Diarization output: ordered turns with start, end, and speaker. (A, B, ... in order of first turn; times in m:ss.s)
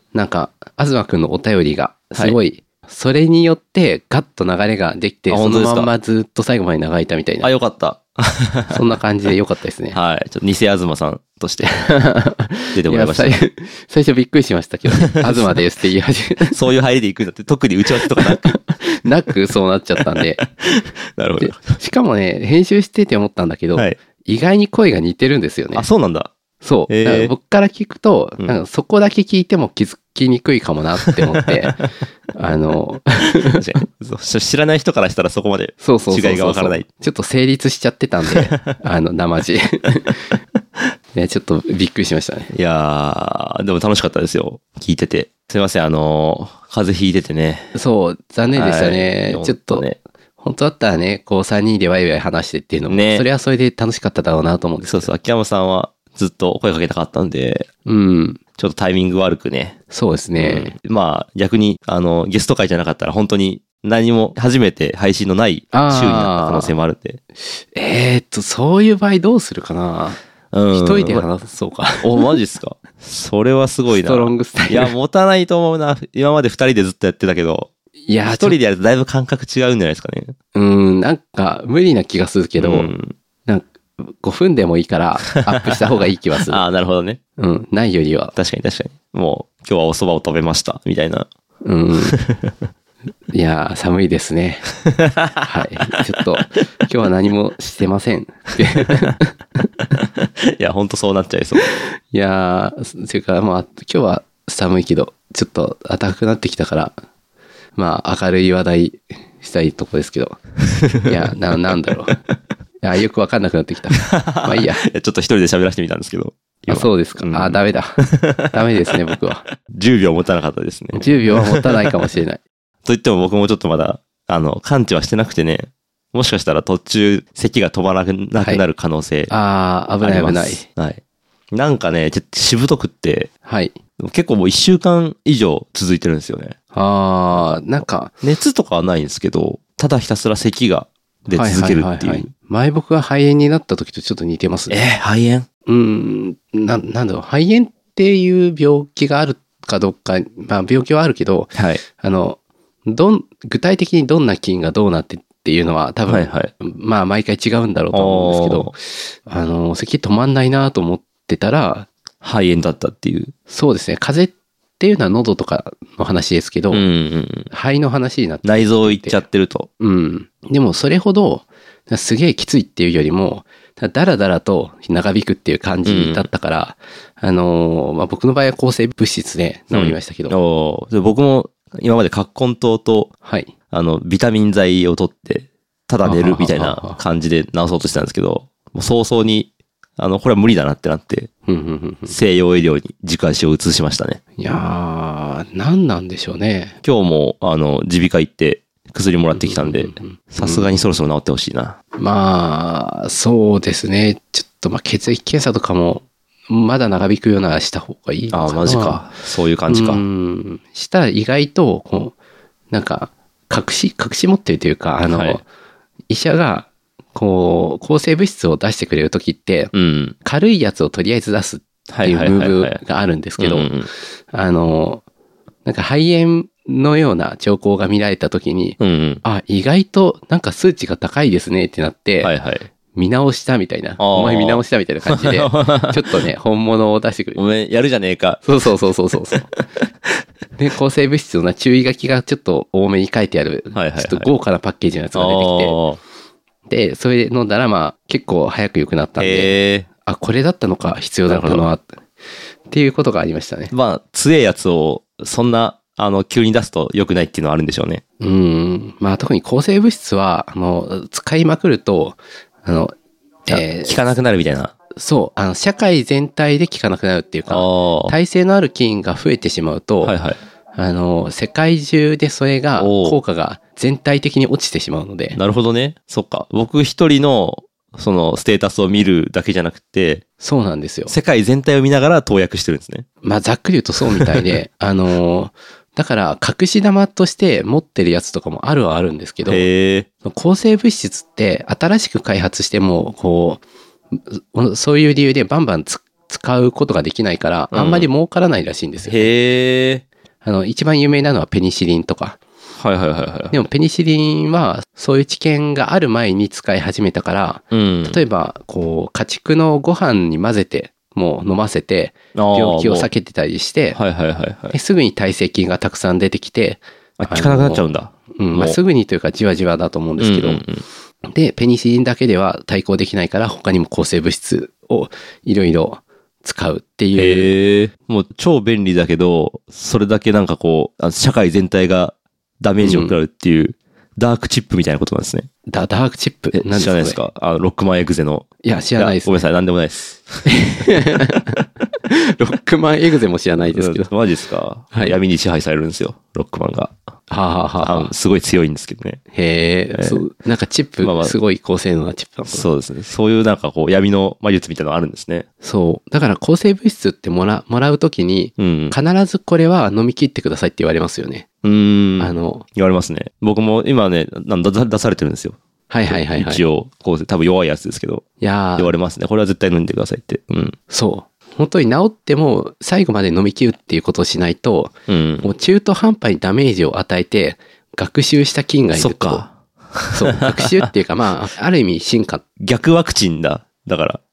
0:00.1-0:07.5 A
0:05.3-0:05.9 B
0:07.4-0:08.8 B
0:08.7-0:10.0 A
0:09.9-0:11.9 B
0:11.6-0:16.6 A
0:12.8-0:13.4 B
0:14.9-0:15.6 B
0:16.5-0:18.6 B
0:18.1-0:20.4 A
0:20.0-0:21.7 B
0:21.4-0:25.9 A
0:25.7-0:26.3 B
0:26.6-0:33.6 A
0:26.9-0:27.3 B
0:31.0-0:31.9 B
0:33.4-0:36.9 B
0:35.8-0:40.4 A
0:38.3-0:38.8 B
0:41.1-0:42.5 A
0:42.5-0:47.7 B
0:47.7-0:49.8 A
0:48.5-0:50.0 B
0:50.4-0:55.1 A
0:52.9-0:53.3 B
0:54.8-0:57.7 B
0:57.9-0:58.4 A
0:58.6-0:59.8 B
0:59.9-1:00.7 A
1:00.4-1:07.2 B
1:05.7-1:06.8 A
1:07.7-1:10.2 A
1:10.5-1:11.3 B
1:10.7-1:12.3 A
1:12.0-1:17.7 B
1:14.0-1:14.9 A
1:18.1-1:18.6 A
1:18.2-1:20.4 B
1:20.5-1:22.9 A
1:22.6-1:23.2 B
1:23.5-1:26.6 A
1:25.3-1:25.8 B
1:26.4-1:27.2 B
1:27.4-1:28.3 A
1:28.4-1:31.3 B
1:31.6-1:32.2 A
1:32.0-1:32.6 B
1:33.3-1:34.7 A
1:34.9-1:36.5 B
1:35.4-1:39.3 A
1:38.7-1:39.2 B
1:40.0-1:41.7 B
1:42.1-1:47.0 A
1:47.8-1:50.4 A
1:50.8-1:51.1 B
1:51.0-1:52.2 A
1:52.8-1:54.8 A
1:54.0-1:59.0 B
1:56.7-1:59.4 A
1:59.6-2:02.2 B
2:00.9-2:02.4 A
2:02.8-2:09.3 B
2:09.3-2:10.6 A
2:10.0-2:11.0 B
2:11.5-2:13.3 B
2:13.4-2:13.8 A
2:14.0-2:16.6 B
2:16.7-2:18.1 A
2:18.2-2:22.3 B
2:21.3-2:24.8 A
2:24.7-2:25.5 B
2:25.7-2:41.9 A
2:31.6-2:31.8 B
2:36.1-2:36.5 B
2:37.9-2:38.7 B
2:42.2-2:43.3 B
2:43.5-2:46.8 A
2:46.7-2:47.5 B
2:47.5-2:49.2 A
2:48.4-2:49.7 B
2:49.8-3:00.4 A
2:55.8-2:56.3 B
2:59.7-3:03.1 B
3:03.2-3:03.5 A
3:03.7-3:11.3 B
3:06.0-3:07.0 A
3:11.5-3:12.2 A
3:12.1-3:14.2 B
3:14.4-3:16.8 A
3:16.8-3:21.8 B
3:19.3-3:20.7 A
3:22.0-3:29.0 A
3:28.3-3:30.0 B
3:29.7-3:32.2 A
3:32.7-3:35.4 A
3:35.1-3:35.4 B
3:36.1-3:39.7 A
3:39.7-3:40.2 B
3:40.2-3:43.7 A
3:41.9-3:42.8 B
3:43.4-3:43.9 B
3:44.3-3:45.0 A
3:45.7-3:52.3 A
3:48.8-3:49.2 B
3:52.2-3:52.7 B
3:52.9-3:57.4 A
3:54.0-3:56.3 B
3:57.4-3:58.4 B
3:58.4-3:59.5 A
3:59.3-3:59.9 B
4:00.6-4:05.8 A
4:03.7-4:04.3 B
4:05.2-4:06.0 B
4:06.7-4:09.5 A
4:09.2-4:09.9 B
4:10.0-4:11.9 A
4:11.3-4:11.7 B
4:12.7-4:13.7 A
4:13.7-4:18.0 B
4:18.2-4:22.9 A
4:23.5-4:24.0 A
4:23.5-4:24.7 B
4:24.9-4:30.2 A
4:27.5-4:28.2 B
4:30.0-4:30.4 B
4:30.8-4:35.4 A
4:32.8-4:33.2 B
4:35.4-4:40.2 B
4:40.4-4:41.1 A
4:41.1-4:43.1 B
4:43.2-4:49.6 A
4:49.5-4:50.1 B
4:50.2-4:53.6 A
4:54.2-4:59.3 A
4:57.7-4:58.1 B
4:59.0-5:00.0 B
5:00.4-5:02.4 A
5:02.8-5:03.6 B
5:03.5-5:14.0 A
5:07.7-5:08.2 B
5:12.4-5:13.1 B
5:13.9-5:14.8 B
5:14.7-5:17.8 A
5:17.2-5:18.8 B
5:18.4-5:20.6 A
5:20.2-5:20.8 B
5:21.2-5:27.5 A
5:27.2-5:35.5 B
5:32.8-5:33.2 A
5:35.7-5:37.2 A
5:36.5-5:41.4 B
5:38.6-5:39.3 A
5:40.5-5:44.1 A
5:43.6-5:47.0 B
5:47.3-5:48.1 A
5:47.8-5:49.2 B
5:49.3-5:52.7 A
5:49.9-5:50.2 B
5:51.0-5:51.4 B
5:52.5-5:55.5 B
5:55.6-6:01.5 A
5:58.6-5:59.0 B
6:01.6-6:08.2 B
6:02.2-6:02.7 A
6:05.9-6:06.6 A
6:08.4-6:08.9 A
6:08.8-6:10.8 B
6:10.9-6:19.4 A
6:15.1-6:15.5 B
6:18.9-6:20.9 B
6:20.1-6:22.4 A
6:22.6-6:24.2 B